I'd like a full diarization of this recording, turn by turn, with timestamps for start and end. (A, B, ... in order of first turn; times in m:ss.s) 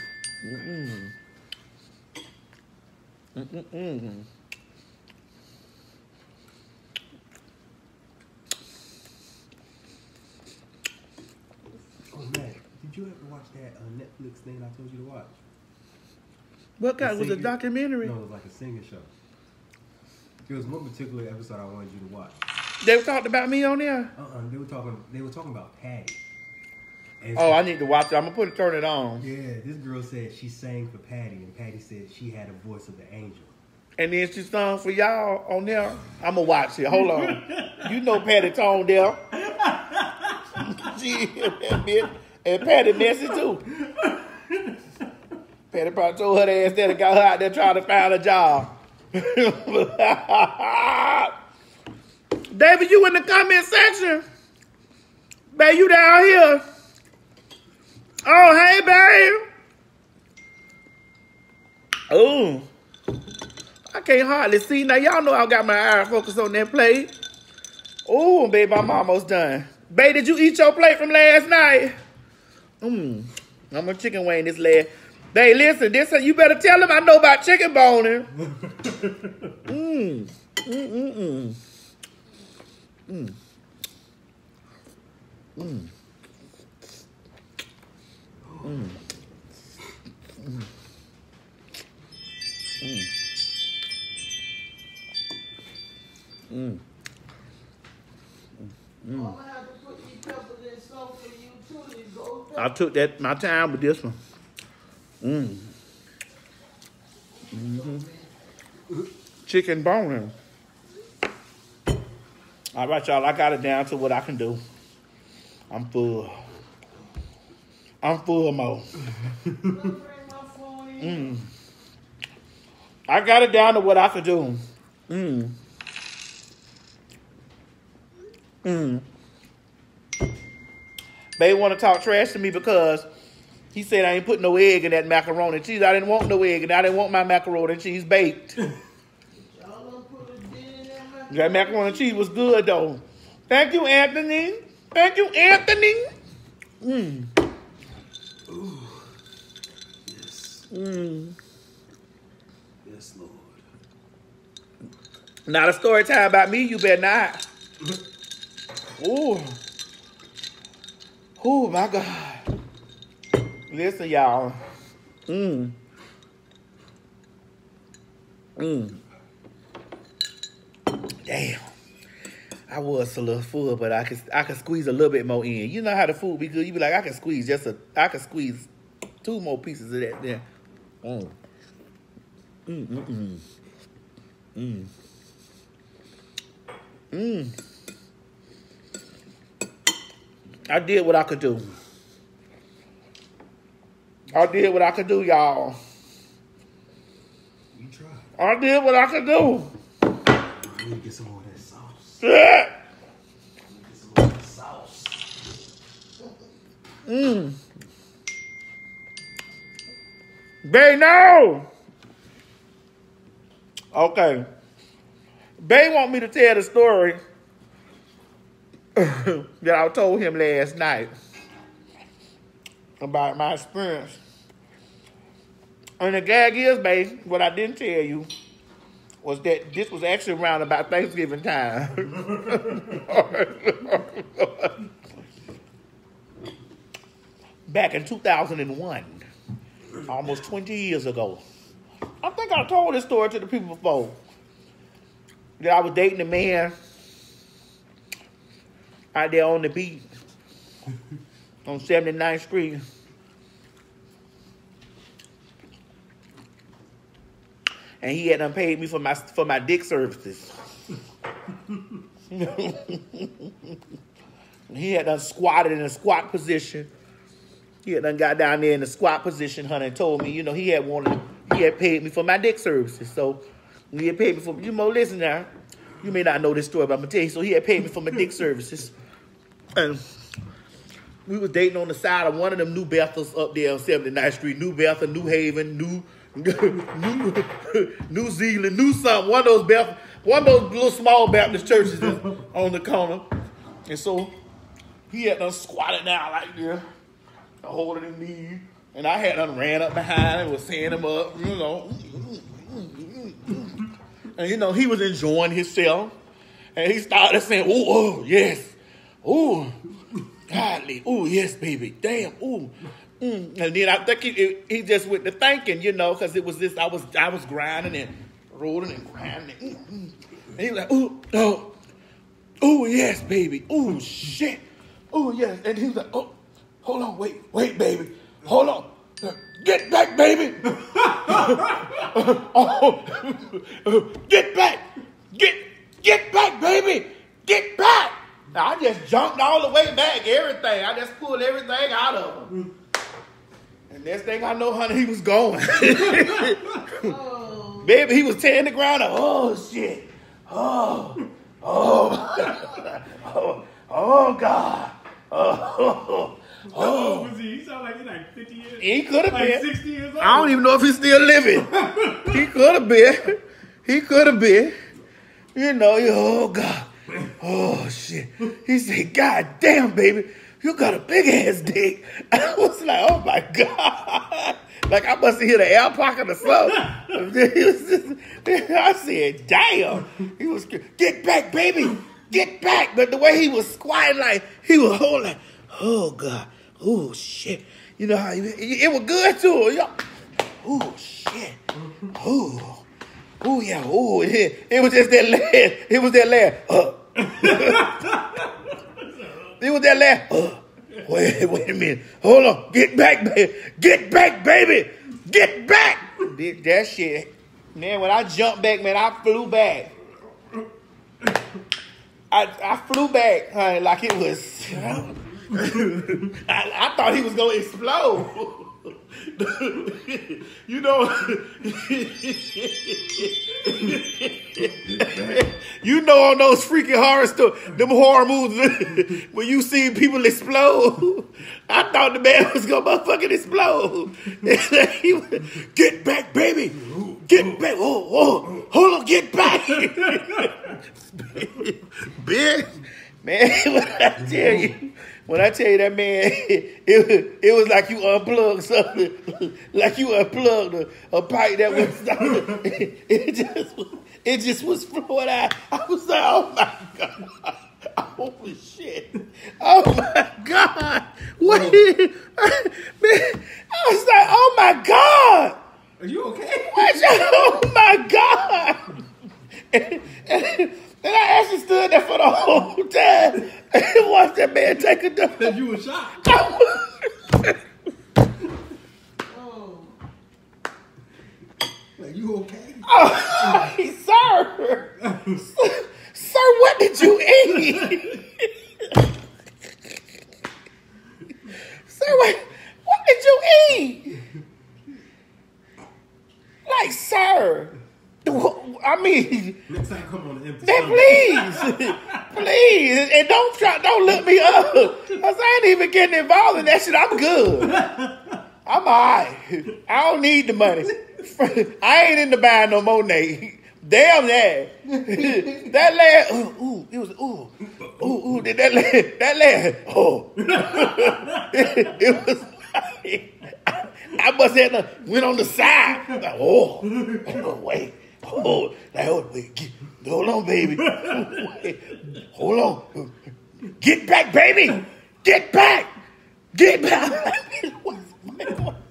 0:00.4-0:01.1 A
0:03.3-0:04.3 A
0:12.1-0:15.4 B
0:16.8-0:18.2 A
0:17.0-0:19.1 B
0:20.4-0:22.4 B
0:22.8-0:24.1 A
0:24.2-0:26.2 B
0:27.2-0:27.6 B
0:27.3-0:29.2 A
0:29.2-0:33.5 B
0:34.0-0:39.2 A
0:36.9-0:38.0 B
0:39.3-0:40.6 B
0:40.6-0:43.6 A
0:43.7-0:44.8 B
0:45.7-0:51.3 A
0:52.5-0:54.2 A
0:55.5-0:56.6 A
0:58.2-0:59.4 A
1:02.1-1:02.7 A
1:03.9-1:07.1 A
1:08.0-1:12.0 A
1:12.8-1:18.3 A
1:18.7-1:19.5 B
1:19.6-1:21.6 A
1:23.1-1:23.3 A
1:25.6-1:25.9 A
1:28.4-1:28.9 B
1:28.6-1:29.0 A
1:32.8-1:33.1 A
1:36.5-1:36.8 A
1:39.0-1:39.3 A
1:39.1-1:42.7 C
1:42.6-1:44.2 A
1:45.2-1:45.7 A
1:47.5-1:48.3 C
1:47.5-1:48.0 A
1:49.4-1:50.3 A
1:52.7-1:54.6 A
1:55.7-1:56.4 A
1:58.0-1:58.9 A
1:59.5-2:01.4 C
2:01.0-2:01.5 A
2:03.1-2:05.5 A
2:08.6-2:09.0 A
2:11.4-2:13.1 A
2:13.7-2:18.6 A
2:19.3-2:22.2 C
2:21.3-2:26.1 A
2:26.8-2:27.3 A
2:28.4-2:29.1 B
2:30.0-2:30.7 B
2:30.7-2:31.3 A
2:32.8-2:33.6 B
2:35.4-2:37.4 A
2:39.0-2:39.6 A
2:41.4-2:42.4 A
2:43.7-2:44.6 A
2:45.3-2:45.8 A
2:48.6-2:49.0 A
2:51.2-2:51.7 A
2:52.7-2:58.7 A
2:59.2-3:00.4 A
3:01.0-3:01.3 A
3:02.7-3:03.4 A
3:04.6-3:04.9 A
3:07.1-3:07.5 A
3:10.7-3:11.7 A
3:14.3-3:15.8 A
3:17.7-3:18.3 B
3:18.4-3:19.7 A
3:20.5-3:22.2 B
3:22.2-3:22.7 A
3:23.6-3:25.4 B
3:27.0-3:27.6 A
3:30.6-3:31.7 A
3:33.9-3:34.4 A
3:35.6-3:37.2 A
3:39.0-3:41.1 A
3:43.0-3:44.2 A
3:46.0-3:48.3 A
3:49.2-3:54.8 A
3:57.7-3:59.2 A
4:00.1-4:01.4 A
4:02.2-4:04.2 A
4:05.6-4:06.7 A
4:09.1-4:10.0 A
4:11.6-4:12.8 A
4:18.0-4:20.6 A
4:22.3-4:23.7 A
4:24.7-4:26.9 A
4:27.8-4:35.5 A
4:36.0-4:38.9 A
4:39.7-4:40.0 A
4:41.2-4:53.2 A
4:53.9-4:54.3 A
4:55.1-4:56.8 A
4:57.6-5:03.8 A
5:04.4-5:06.1 A
5:06.8-5:09.7 A
5:10.5-5:21.7 A
5:22.6-5:42.5 A
5:30.8-5:32.0 B
5:43.9-5:47.1 A
5:46.9-5:48.0 C
5:47.8-5:57.3 A
5:56.7-6:00.6 B
5:58.8-5:59.7 A
6:00.2-6:04.7 A
6:01.7-6:02.4 B
6:05.5-6:30.0 A
6:30.6-6:31.6 A
6:32.1-6:32.8 A
6:33.4-6:38.0 A
6:37.2-6:39.0 B
6:39.6-6:49.9 A
6:52.3-7:45.6 A
7:16.8-7:17.6 B
7:24.2-7:24.7 B
7:32.2-7:32.6 B
7:41.4-7:41.9 B
7:46.0-7:47.6 B
7:46.6-7:48.9 A
7:49.7-7:55.6 A
7:55.4-7:56.5 B
7:56.2-7:57.6 A
7:59.3-7:59.9 C
8:02.0-8:03.7 B
8:02.8-8:08.5 A
8:05.0-8:05.4 B
8:07.4-8:08.2 B
8:11.9-8:14.2 A
8:16.6-8:19.6 A
8:19.7-8:22.2 B
8:20.6-8:27.8 A
8:24.6-8:25.0 B
8:27.6-8:28.4 B
8:28.6-8:53.1 A
8:35.2-8:35.4 B
8:37.8-8:38.3 B
8:40.4-8:41.9 B
8:46.9-8:47.4 B
8:50.8-8:51.4 B
8:53.8-8:55.9 A
8:56.5-8:58.8 A